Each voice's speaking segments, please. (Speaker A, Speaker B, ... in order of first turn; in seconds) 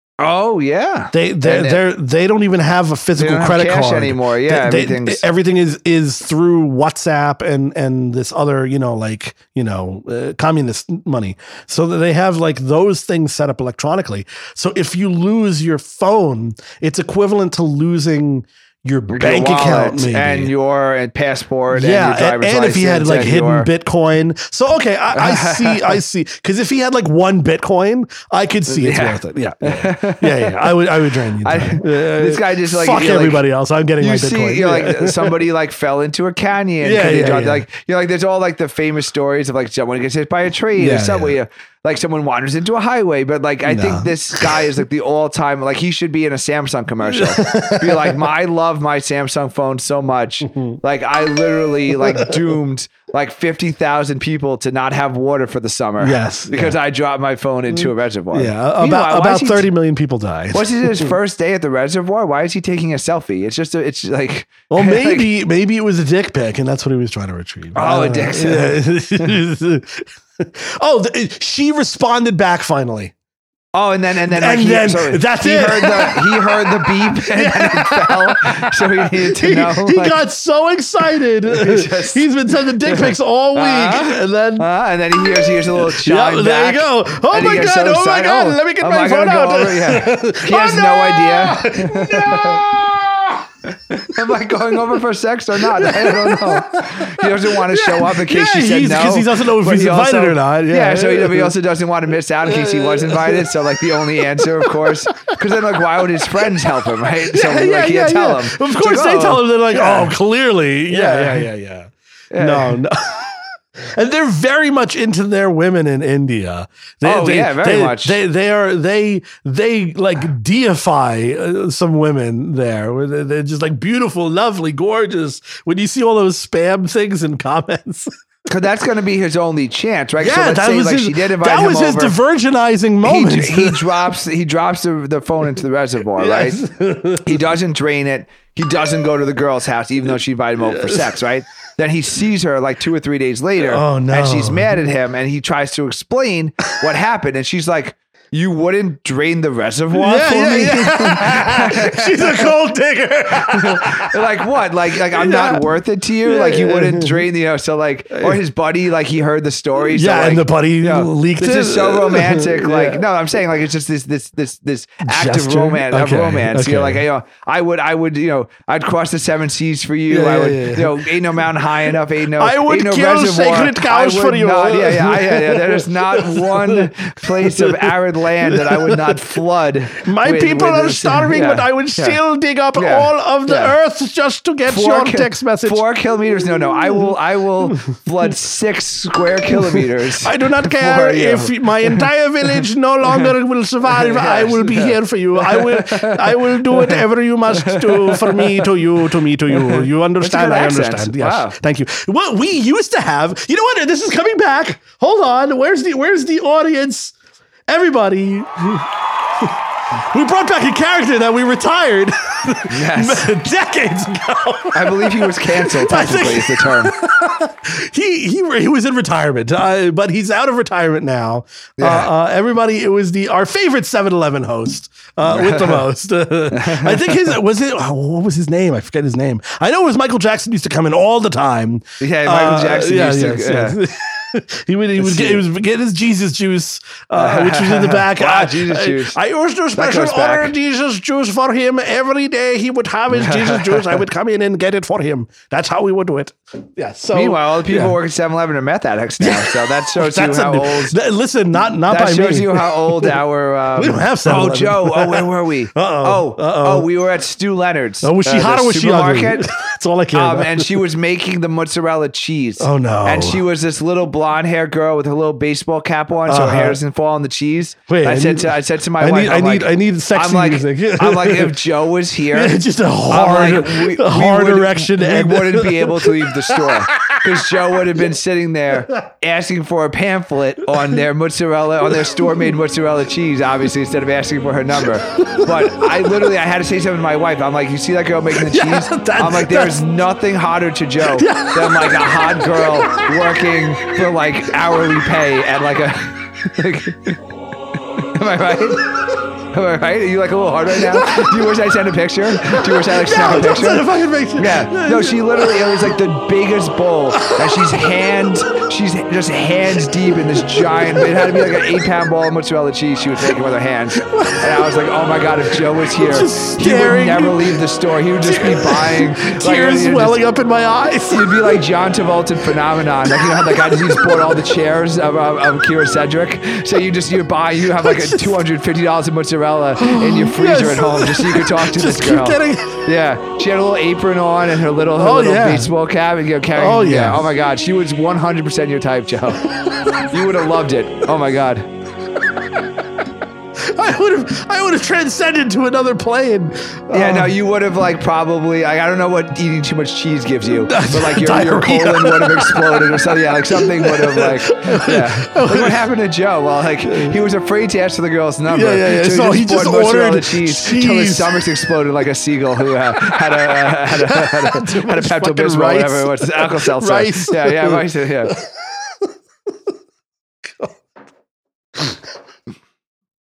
Speaker A: 0.2-1.8, 3.2-5.2, 19.1-23.7, 25.1-26.0, 28.7-30.8, 31.4-33.4, 34.0-59.7, 60.5-65.3, 67.8-69.4, 73.7-80.2, 81.5-92.6, 93.7-110.1, 110.9-111.5, 112.3-112.8, 117.0-118.2, 128.5-132.2, 133.0-136.7, 137.2-152.5, 153.5-182.2, 182.8-183.7, 184.7-192.1, 193.9-197.0, 197.5-198.8, 199.5-201.6, 212.7-213.3, 214.7-216.9, 221.8-222.1, 225.3-225.8, 226.5-227.3, 232.0-233.8, 235.0-235.4, 237.2-239.2, 239.8-240.5, 243.1-244.0, 247.1-251.0, 251.9-259.5, 260.1-272.6, 273.1-297.2, 298.0-298.9, 299.5-320.2, 321.1-339.5, 340.1-341.7, 346.9-368.4
Speaker B: 1.1-20.5, 21.7-35.4, 36.8-37.7, 40.8-41.4, 43.6-44.7, 47.1-48.3, 50.5-50.8, 52.0-52.4, 56.0-56.8, 57.7-61.2, 64.7-73.1, 74.3-93.5, 95.6-101.6, 102.5-128.1, 130.2-133.9, 136.2-137.4, 140.7-141.1, 143.6-144.8, 149.9-154.2, 155.1-155.6, 156.2-157.3, 158.1-158.4, 159.8-163.0, 165.1-167.1, 170.1-171.2, 171.9-179.4, 180.0-187.8, 189.5-207.2, 207.7-248.0, 249.2-253.2, 253.8-256.9, 258.0-260.9, 262.6-263.4, 266.3-266.8, 267.9-271.6, 272.3-277.6, 281.9-282.4, 285.1-286.3, 288.3-289.8, 291.0-293.4, 300.8-301.4, 302.4-306.0, 307.1-307.9, 309.8-311.7, 314.0-314.7, 315.9-317.6, 318.2-321.6, 323.1-324.5, 327.7-328.4, 329.8-332.9, 335.0-335.7, 336.6-337.3, 342.4-342.8, 343.6-347.3, 350.6-355.8, 356.8-357.2, 358.5-361.4, 363.0-369.1, 370.5-370.7